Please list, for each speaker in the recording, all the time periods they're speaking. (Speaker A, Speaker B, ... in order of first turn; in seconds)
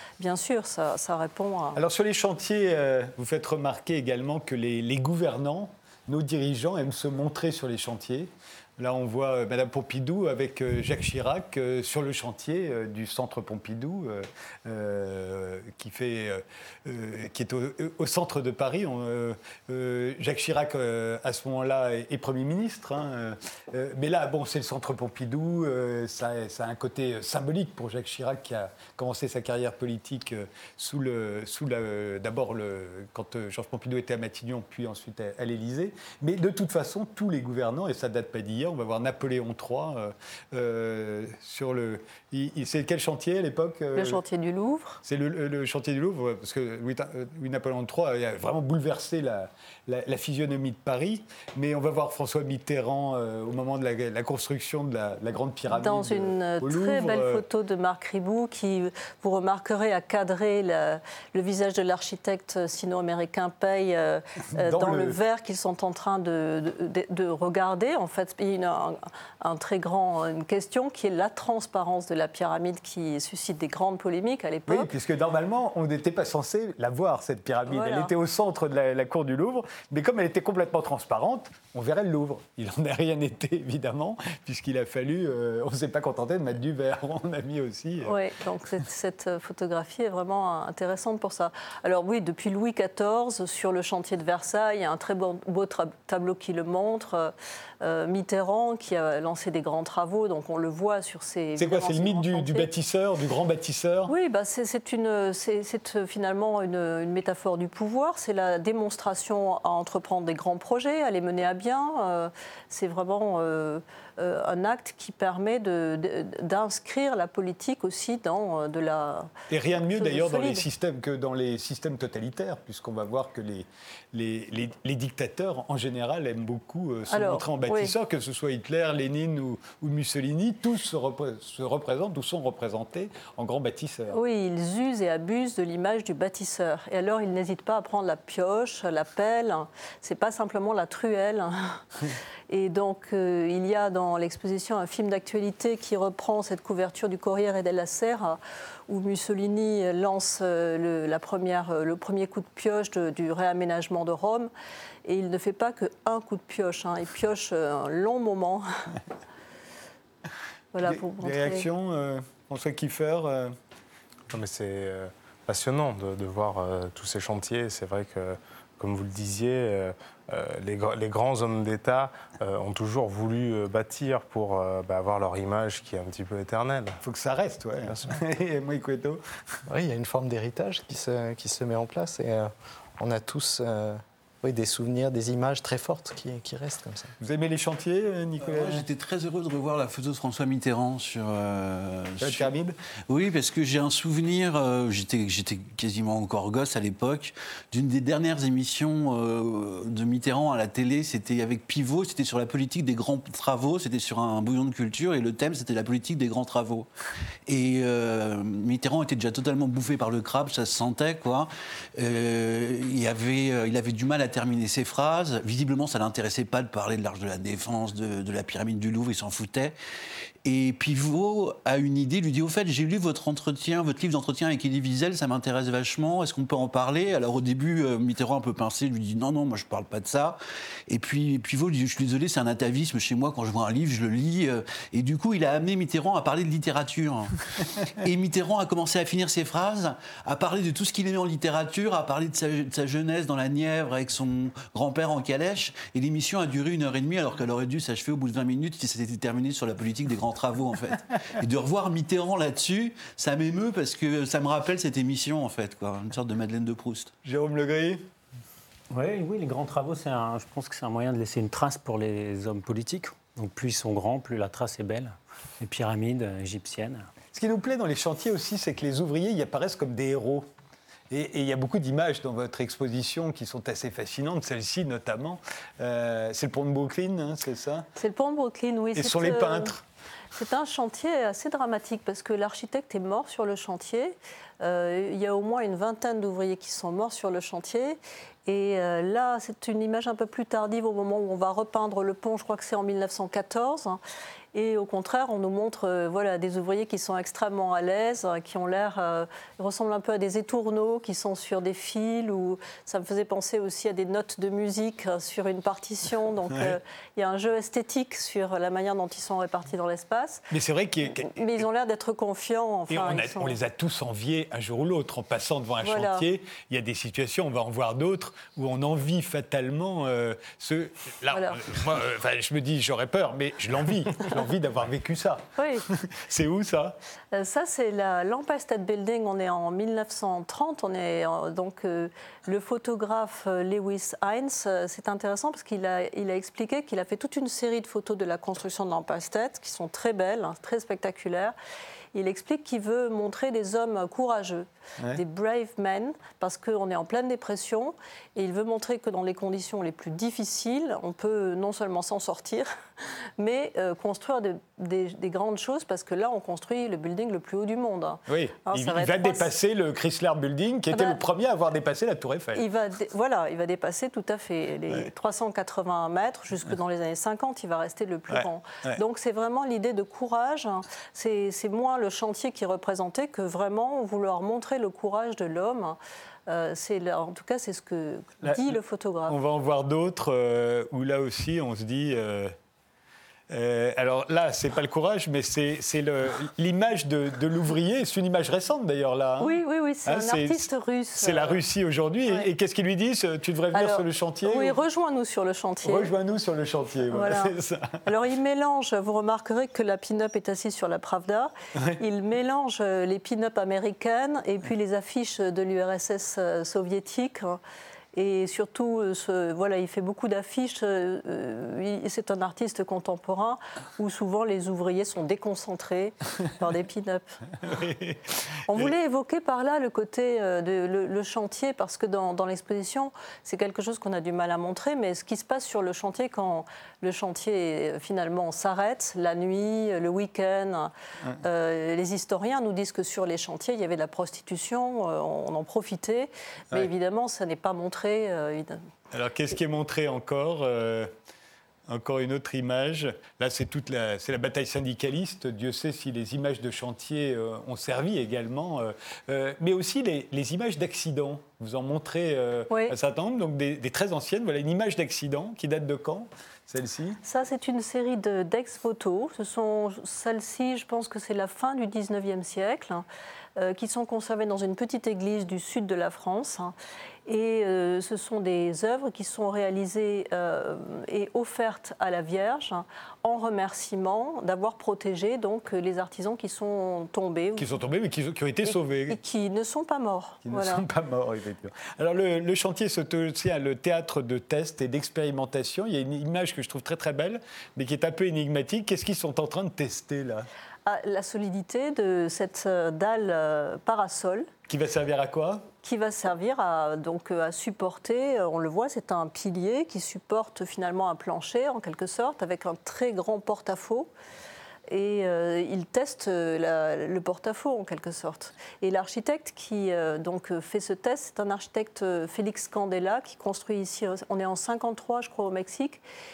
Speaker A: 0.2-1.8, 43.9-45.0, 55.7-74.9, 77.7-78.1, 88.0-102.7, 104.1-120.6, 127.1-127.9, 134.1-141.8, 142.5-154.5, 155.0-158.7, 160.7-161.7, 277.9-279.7, 280.3-294.0, 294.5-310.4, 311.2-313.6, 315.8-316.3, 321.3-321.6, 325.6-325.9, 327.3-341.5, 342.1-352.7, 353.4-359.5, 360.9-361.2, 362.5-379.4, 389.4-391.6, 393.7-396.1, 397.1-397.5, 398.0-407.6, 408.1-417.2, 418.7-430.9, 431.4-438.8, 452.7-452.9, 457.2-463.0, 463.6-466.7, 467.2-477.7, 478.7-480.8, 490.9-494.5, 495.8-504.1, 504.9-516.0
Speaker B: 1.8-44.2, 45.0-57.4, 64.5-65.2, 74.7-88.1, 101.6-104.1, 119.5-134.2, 160.8-163.5, 177.0-179.2, 187.2-188.8, 192.2-192.8, 257.2-258.0, 267.3-270.5, 271.1-277.9, 278.9-279.8, 310.5-311.6, 312.9-327.0, 358.3-362.6, 368.3-369.0, 378.4-378.7, 379.3-382.5, 383.5-390.6, 391.1-394.8, 395.8-398.0, 417.6-418.9, 439.1-441.1, 441.9-457.2, 477.6-479.2, 480.5-490.5, 494.7-495.6
Speaker C: 164.3-177.0
Speaker D: 179.7-187.1
Speaker E: 188.4-192.5, 193.1-206.9, 207.4-219.7, 220.4-257.1
Speaker F: 258.9-267.1